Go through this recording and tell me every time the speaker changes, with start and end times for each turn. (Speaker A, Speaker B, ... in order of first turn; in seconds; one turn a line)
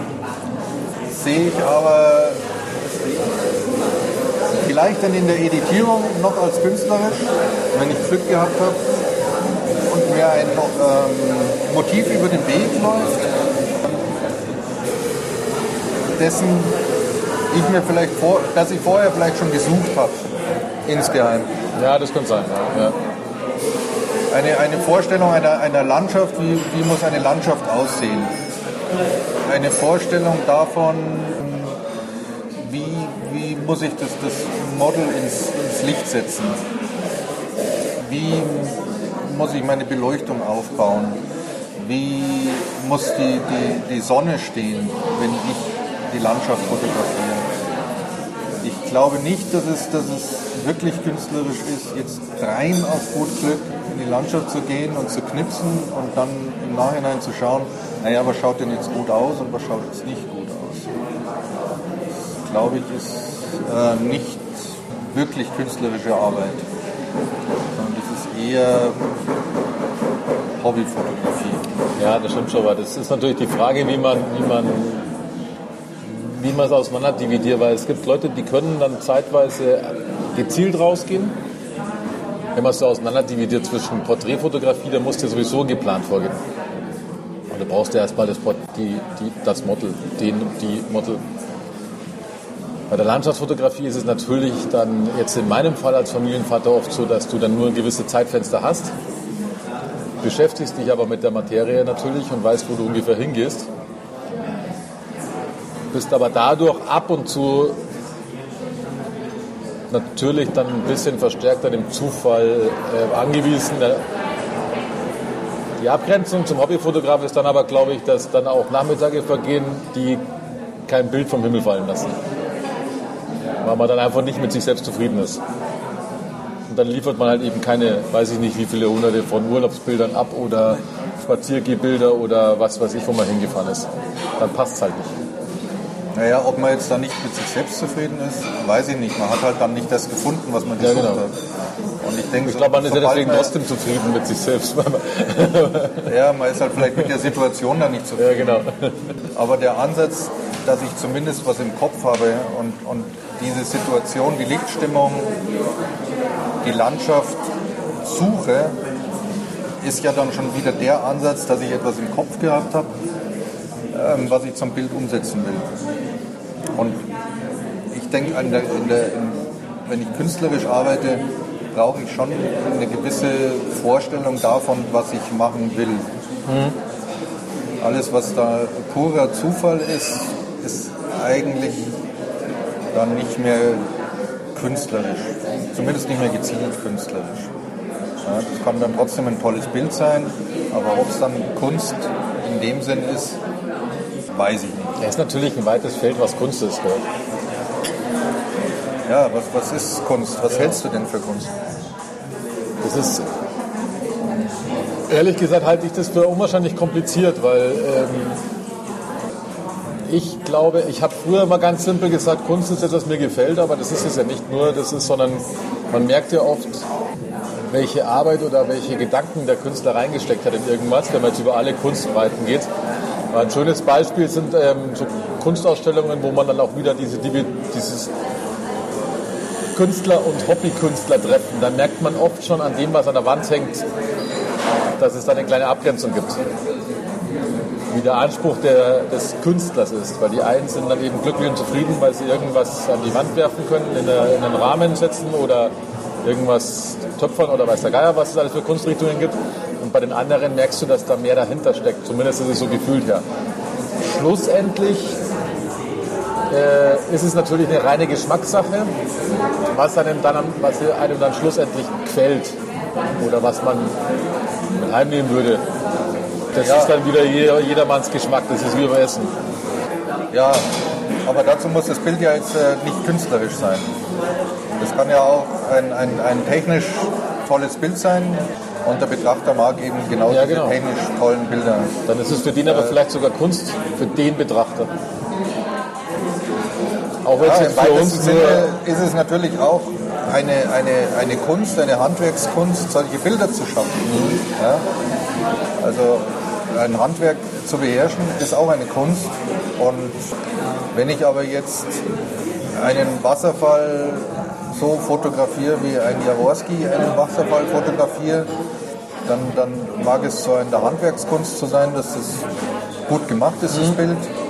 Speaker A: 1.1-2.4
Speaker A: 4.6-8.8
Speaker A: 9.9-13.2
Speaker A: 16.2-16.8
Speaker A: 17.5-20.2
Speaker A: 20.9-21.5
Speaker B: 21.8-23.0
Speaker A: 24.3-28.4
Speaker A: 29.5-31.8
Speaker A: 32.6-36.6
Speaker A: 38.0-41.2
Speaker A: 41.8-47.5
Speaker A: 48.6-60.9
Speaker A: 62.4-66.7
Speaker A: 67.8-69.0
Speaker A: 70.6-71.7
Speaker B: 72.0-75.1
Speaker B: 76.0-81.4
Speaker B: 82.6-86.4
Speaker B: 87.5-91.2
Speaker B: 92.9-98.9
Speaker B: 100.2-103.7
Speaker B: 105.9-107.8
Speaker B: 109.9-114.0
Speaker B: 115.8-120.2
Speaker B: 120.9-122.2
Speaker B: 123.6-125.4
Speaker B: 126.7-133.9
Speaker B: 134.4-135.1
Speaker A: 136.2-141.4
Speaker B: 140.8-141.2
Speaker A: 142.0-143.5
Speaker B: 142.4-146.1
Speaker A: 146.1-148.6
Speaker B: 148.2-149.0
Speaker A: 149.3-155.3
Speaker A: 156.6-157.4
Speaker A: 158.0-158.8
Speaker A: 159.8-162.9
Speaker A: 163.9-165.7
Speaker A: 166.8-167.1
Speaker A: 167.9-176.1
Speaker B: 176.5-176.8
Speaker A: 177.8-182.0
Speaker A: 182.9-183.8
Speaker A: 184.6-187.5
Speaker A: 188.2-193.4
Speaker A: 194.3-194.9
Speaker B: 195.0-197.0
Speaker A: 199.1-201.5
Speaker B: 202.8-203.3
Speaker B: 205.1-208.4
Speaker B: 210.1-216.8
Speaker B: 217.7-222.7
Speaker B: 223.3-228.1
Speaker B: 229.7-233.8
Speaker B: 235.0-236.4
Speaker B: 237.9-253.2
Speaker B: 254.1-255.2
Speaker B: 256.5-258.9
Speaker B: 259.7-262.6
Speaker B: 263.2-263.9
Speaker B: 264.8-265.6
Speaker B: 266.6-269.3
Speaker A: 266.6-267.0
Speaker A: 270.3-270.7
Speaker A: 271.3-273.9
Speaker A: 274.8-281.9
Speaker B: 280.3-280.8
Speaker B: 282.1-284.9
Speaker A: 282.6-283.0
Speaker B: 287.2-288.7
Speaker A: 287.4-294.8
Speaker B: 294.1-294.4
Speaker A: 295.8-300.2
Speaker A: 300.9-302.0
Speaker A: 302.8-308.5
Speaker A: 309.3-312.4
Speaker A: 313.1-314.3